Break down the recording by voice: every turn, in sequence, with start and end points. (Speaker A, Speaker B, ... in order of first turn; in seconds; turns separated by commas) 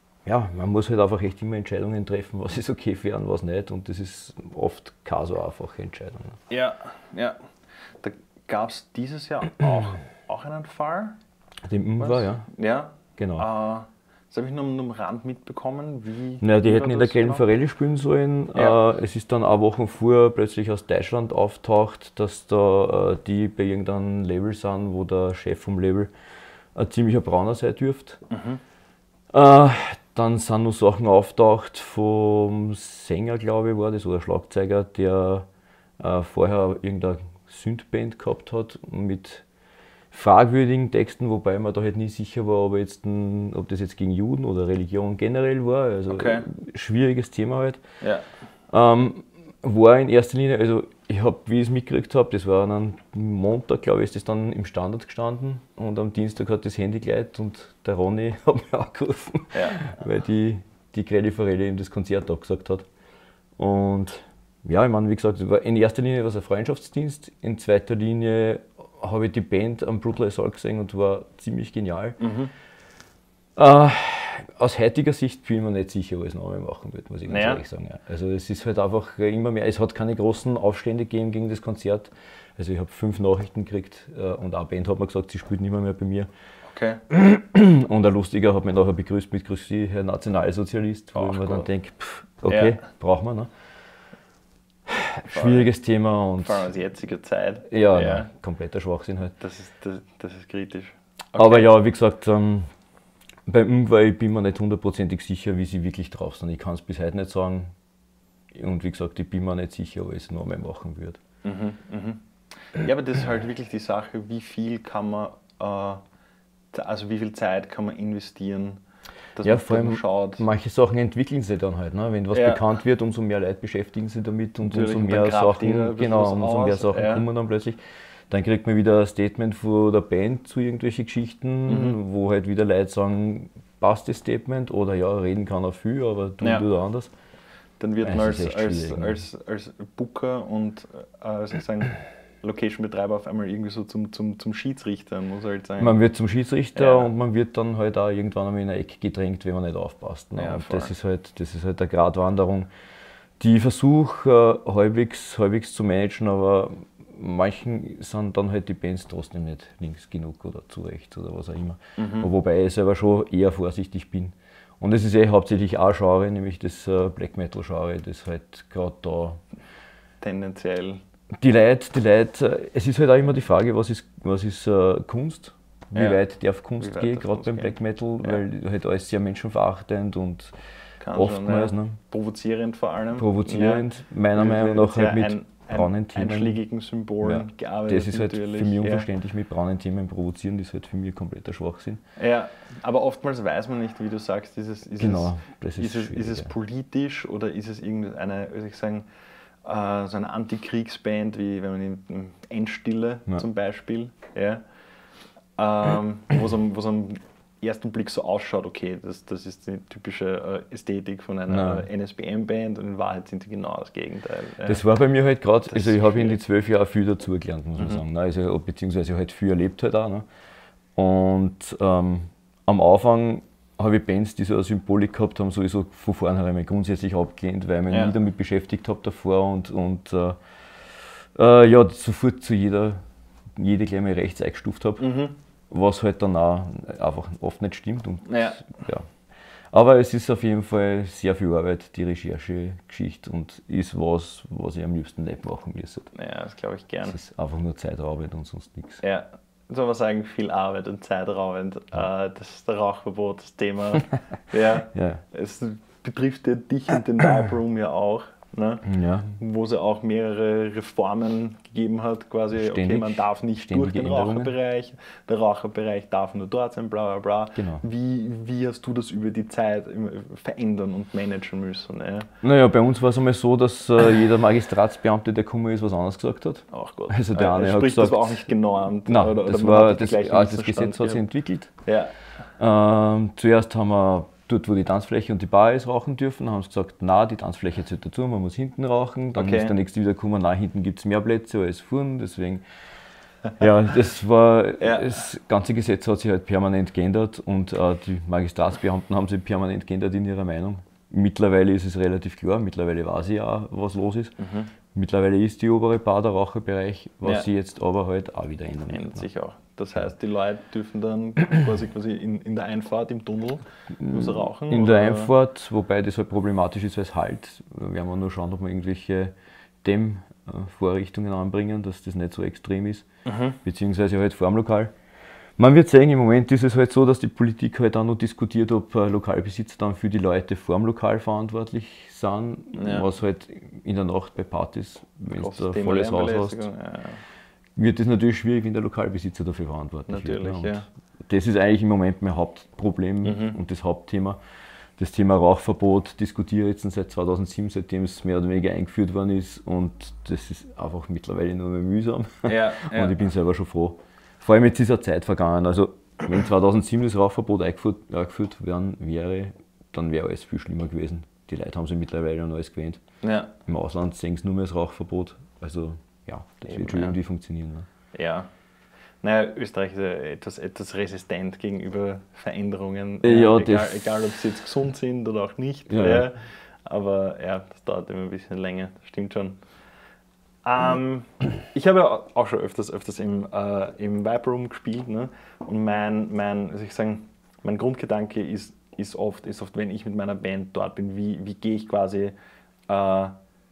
Speaker A: 0.2-6.4, Speaker B: 6.5-7.4, Speaker B: 8.0-11.2, Speaker A: 11.7-12.5, Speaker B: 12.0-17.4, Speaker A: 13.2-13.5, Speaker A: 16.4-26.1, Speaker A: 26.7-28.2, Speaker B: 28.3-28.6, Speaker A: 29.3-35.4, Speaker A: 36.0-39.4, Speaker A: 40.1-47.8, Speaker B: 46.1-46.5, Speaker B: 48.0-48.3, Speaker A: 48.7-62.9, Speaker B: 59.5-59.9, Speaker A: 63.6-72.2, Speaker B: 72.2-72.5, Speaker A: 73.5-86.3, Speaker B: 77.3-77.6, Speaker B: 86.7-87.0, Speaker A: 87.1-93.5, Speaker B: 91.1-91.7, Speaker B: 92.5-92.8, Speaker A: 94.9-96.7, Speaker B: 95.3-95.7, Speaker B: 96.4-98.3, Speaker A: 97.7-99.3, Speaker B: 99.4-101.7, Speaker A: 101.3-102.7, Speaker A: 103.5-107.7, Speaker A: 108.5-111.2, Speaker B: 111.4-116.0, Speaker B: 116.7-118.8, Speaker B: 119.3-120.4, Speaker A: 119.4-127.8, Speaker B: 122.3-122.7, Speaker B: 124.6-127.2, Speaker A: 128.3-137.1, Speaker B: 131.7-132.0, Speaker B: 136.4-136.7, Speaker B: 137.8-146.0, Speaker A: 138.0-139.2, Speaker A: 145.8-152.7, Speaker B: 146.7-147.1, Speaker B: 150.3-150.9, Speaker A: 153.4-169.4, Speaker B: 162.0-162.3, Speaker B: 170.2-171.0, Speaker A: 171.4-180.5, Speaker B: 175.9-176.2, Speaker B: 176.8-178.4, Speaker B: 181.0-189.1, Speaker A: 181.1-182.0, Speaker A: 183.2-186.6, Speaker A: 187.2-192.0, Speaker B: 192.2-199.1, Speaker A: 195.0-196.5, Speaker B: 199.6-204.6, Speaker B: 205.6-214.8, Speaker A: 211.5-211.9, Speaker A: 214.7-220.2, Speaker B: 215.7-216.4, Speaker A: 220.9-233.0, Speaker B: 227.9-228.2, Speaker A: 233.6-239.1, Speaker B: 235.0-235.3, Speaker B: 238.2-238.6, Speaker A: 239.7-246.1, Speaker B: 246.1-247.2, Speaker A: 247.0-249.0, Speaker B: 249.0-272.3, Speaker A: 254.9-255.2, Speaker A: 258.8-259.4, Speaker A: 262.5-264.5, Speaker A: 267.6-267.8, Speaker A: 272.4-278.5, Speaker B: 276.7-281.2, Speaker A: 279.1-281.7, Speaker B: 281.8-282.1, Speaker A: 282.6-292.6, Speaker B: 289.3-289.7, Speaker A: 293.6-304.4, Speaker B: 294.8-295.2, Speaker B: 304.4-304.7, Speaker A: 304.9-309.2, Speaker B: 307.2-307.5, Speaker B: 308.9-315.3, Speaker A: 314.0-323.1, Speaker B: 323.2-323.6, Speaker A: 323.6-324.9, Speaker A: 325.6-336.7, Speaker B: 332.7-333.1, Speaker B: 335.3-337.2, Speaker A: 337.8-344.4, Speaker B: 340.1-340.9, Speaker B: 343.2-343.6, Speaker A: 345.0-363.0, Speaker B: 352.4-353.2, Speaker B: 363.2-363.5, Speaker A: 363.7-367.9, Speaker B: 366.6-367.1, Speaker B: 368.1-368.5, Speaker B: 369.2-379.6, Speaker A: 373.2-374.2, Speaker A: 375.9-376.3, Speaker B: 380.6-392.3, Speaker B: 392.9-393.3